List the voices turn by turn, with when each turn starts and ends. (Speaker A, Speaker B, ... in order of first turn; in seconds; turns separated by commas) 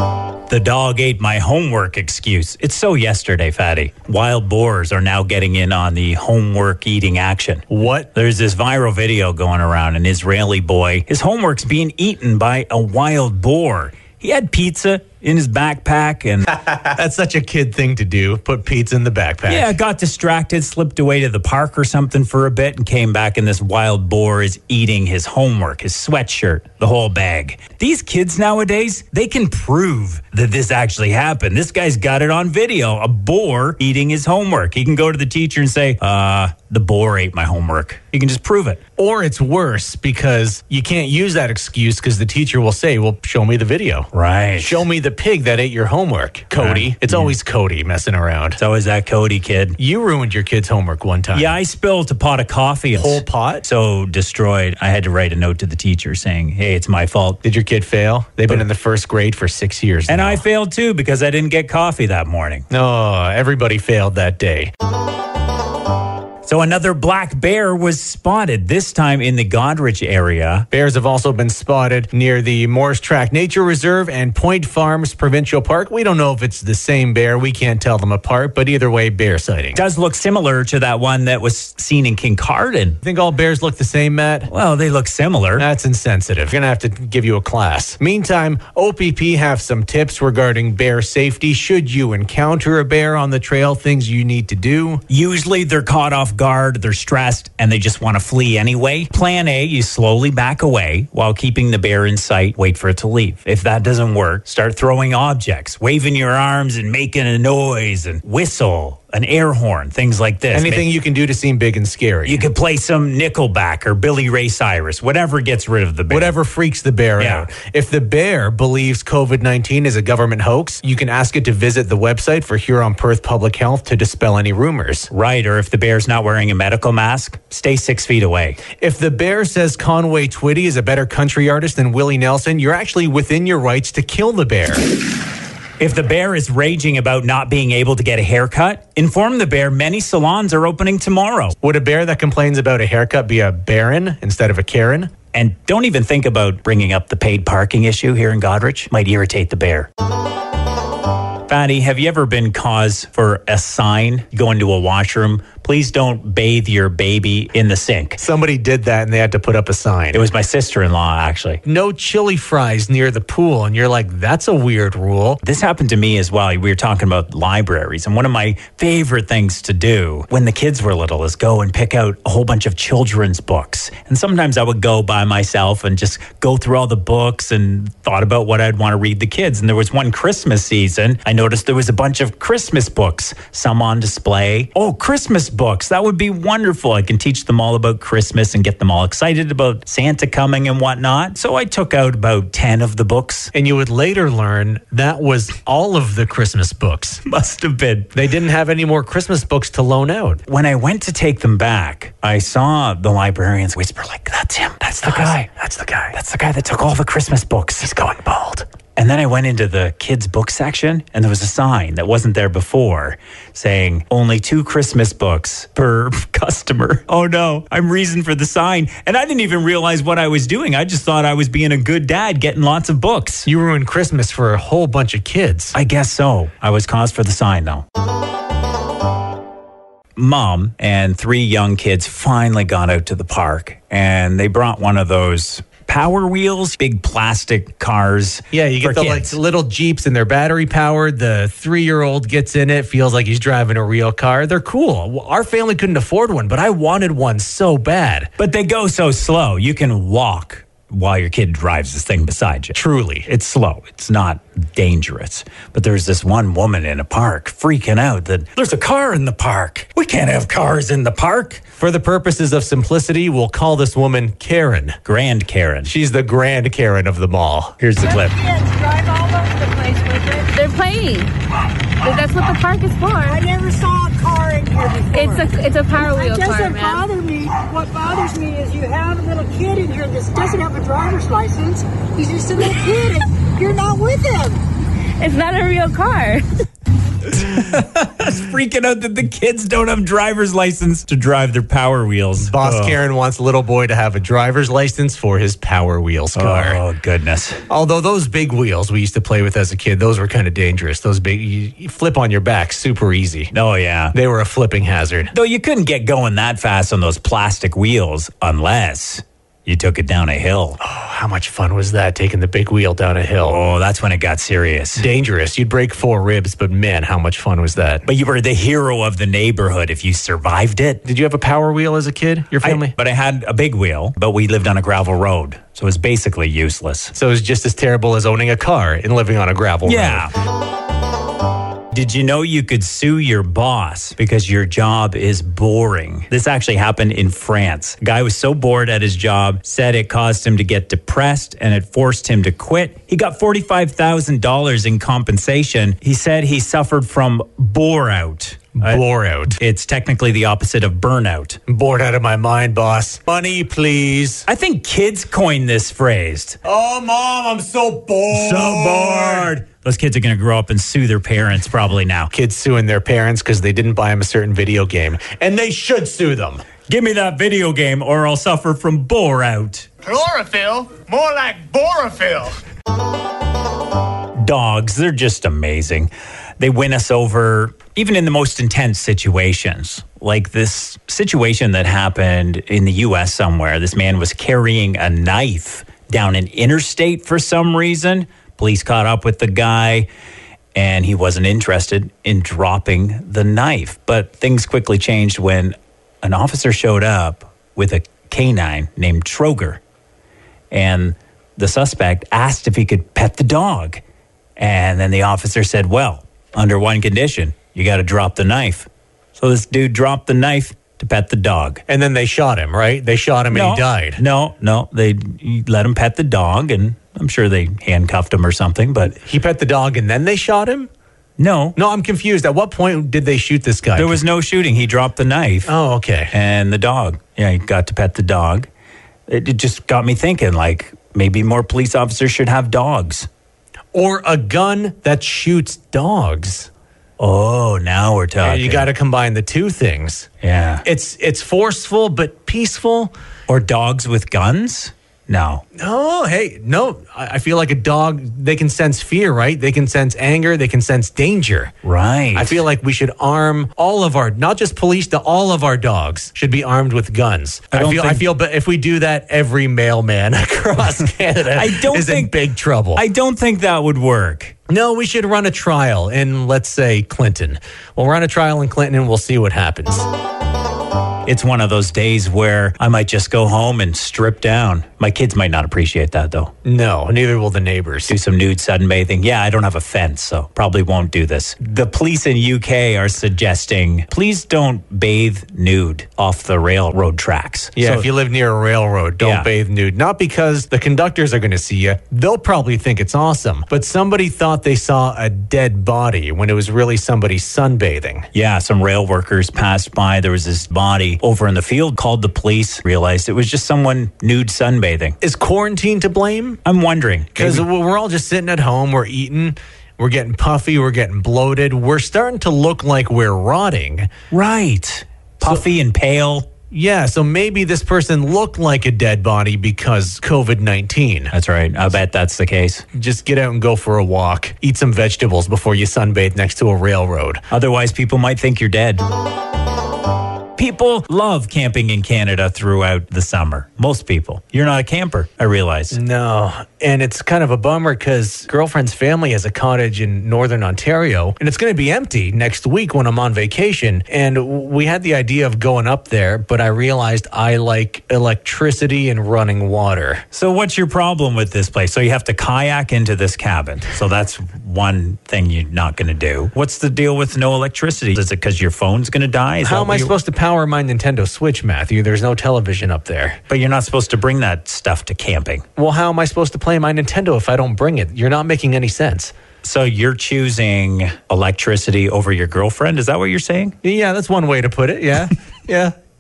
Speaker A: 0.5-16.5, Speaker B: 7.7-8.1, Speaker B: 16.6-19.7, Speaker A: 19.5-38.8, Speaker B: 39.0-48.6, Speaker A: 44.1-44.8, Speaker A: 46.5-47.4, Speaker A: 48.6-49.8, Speaker B: 49.8-51.5, Speaker A: 51.3-57.4, Speaker B: 53.0-53.6, Speaker B: 57.4-60.4, Speaker A: 60.1-62.7, Speaker B: 62.7-64.7, Speaker A: 66.5-70.7, Speaker B: 70.7-79.8, Speaker A: 79.8-83.0, Speaker B: 83.0-84.5, Speaker A: 84.5-85.7, Speaker B: 85.6-95.0, Speaker A: 95.1-110.9, Speaker B: 110.5-112.5, Speaker A: 112.3-116.4, Speaker B: 116.1-125.1, Speaker A: 117.2-117.5, Speaker A: 125.1-128.6, Speaker B: 128.8-134.8, Speaker A: 135.8-141.6, Speaker B: 141.6-145.1, Speaker A: 145.3-149.9, Speaker A: 151.5-158.2, Speaker B: 158.2-160.3, Speaker A: 160.1-161.6, Speaker B: 161.7-165.4, Speaker A: 165.4-193.5, Speaker B: 193.5-197.2, Speaker A: 197.2-198.2, Speaker B: 198.1-200.4, Speaker A: 200.5-205.5, Speaker B: 205.0-206.2, Speaker A: 206.1-207.9, Speaker B: 207.8-208.7, Speaker A: 209.0-223.5, Speaker B: 223.5-225.8, Speaker A: 225.7-227.8, Speaker A: 230.2-239.4, Speaker B: 238.5-248.3, Speaker A: 248.4-261.6, Speaker B: 252.7-253.3, Speaker B: 261.8-265.0, Speaker A: 265.1-265.9, Speaker B: 265.8-267.8, Speaker A: 267.8-268.4, Speaker C: 268.0-270.6, Speaker D: 270.6-271.3, Speaker D: 272.0-273.4, Speaker C: 273.3-284.6, Speaker D: 275.1-277.1, Speaker D: 285.2-286.5, Speaker A: 287.3-293.0, Speaker B: 292.4-296.8, Speaker A: 296.4-297.6, Speaker B: 297.7-303.5, Speaker A: 303.5-304.1, Speaker B: 304.1-305.3, Speaker A: 305.3-310.8, Speaker B: 310.8-313.6, Speaker A: 313.4-315.1, Speaker B: 315.0-318.1, Speaker A: 318.1-321.0, Speaker B: 321.0-323.0, Speaker A: 322.6-327.1, Speaker B: 327.1-330.3, Speaker A: 329.9-330.3, Speaker A: 331.9-351.6, Speaker B: 348.8-349.6, Speaker B: 351.7-354.5, Speaker A: 354.5-356.6, Speaker B: 356.6-359.5, Speaker A: 358.3-362.3, Speaker B: 362.3-366.6, Speaker A: 366.9-369.9, Speaker E: 370.0-372.6, Speaker A: 374.4-390.1, Speaker A: 390.8-399.8, Speaker A: 400.7-404.0, Speaker A: 404.6-411.8, Speaker B: 411.9-414.2, Speaker A: 413.5-419.1, Speaker B: 419.1-420.9, Speaker A: 421.4-421.8, Speaker B: 421.8-424.2, Speaker A: 423.9-425.7, Speaker B: 425.7-426.3, Speaker A: 426.3-428.7, Speaker A: 429.3-433.3, Speaker B: 433.9-436.7, Speaker A: 437.2-438.9, Speaker B: 438.4-440.3, Speaker A: 440.4-440.9, Speaker B: 440.9-443.1, Speaker A: 443.5-445.6, Speaker B: 445.8-451.7, Speaker A: 451.8-452.6, Speaker B: 452.4-463.0, Speaker A: 457.7-458.3, Speaker A: 461.5-462.4, Speaker A: 462.9-464.6, Speaker B: 464.7-470.1, Speaker A: 471.3-476.5, Speaker B: 476.6-478.2, Speaker A: 478.1-488.1, Speaker B: 487.8-498.3, Speaker A: 489.2-489.5, Speaker A: 498.3-505.2, Speaker B: 505.2-506.6, Speaker A: 506.6-507.7, Speaker B: 507.4-514.1, Speaker A: 514.3-516.5, Speaker B: 516.7-521.3, Speaker A: 521.3-522.9, Speaker B: 522.9-527.4, Speaker A: 527.5-529.0, Speaker A: 530.6-536.0, Speaker B: 535.9-550.2, Speaker A: 550.3-560.2, Speaker B: 559.6-563.4, Speaker A: 563.5-565.7, Speaker B: 565.8-569.3, Speaker A: 569.6-573.8, Speaker B: 573.8-576.0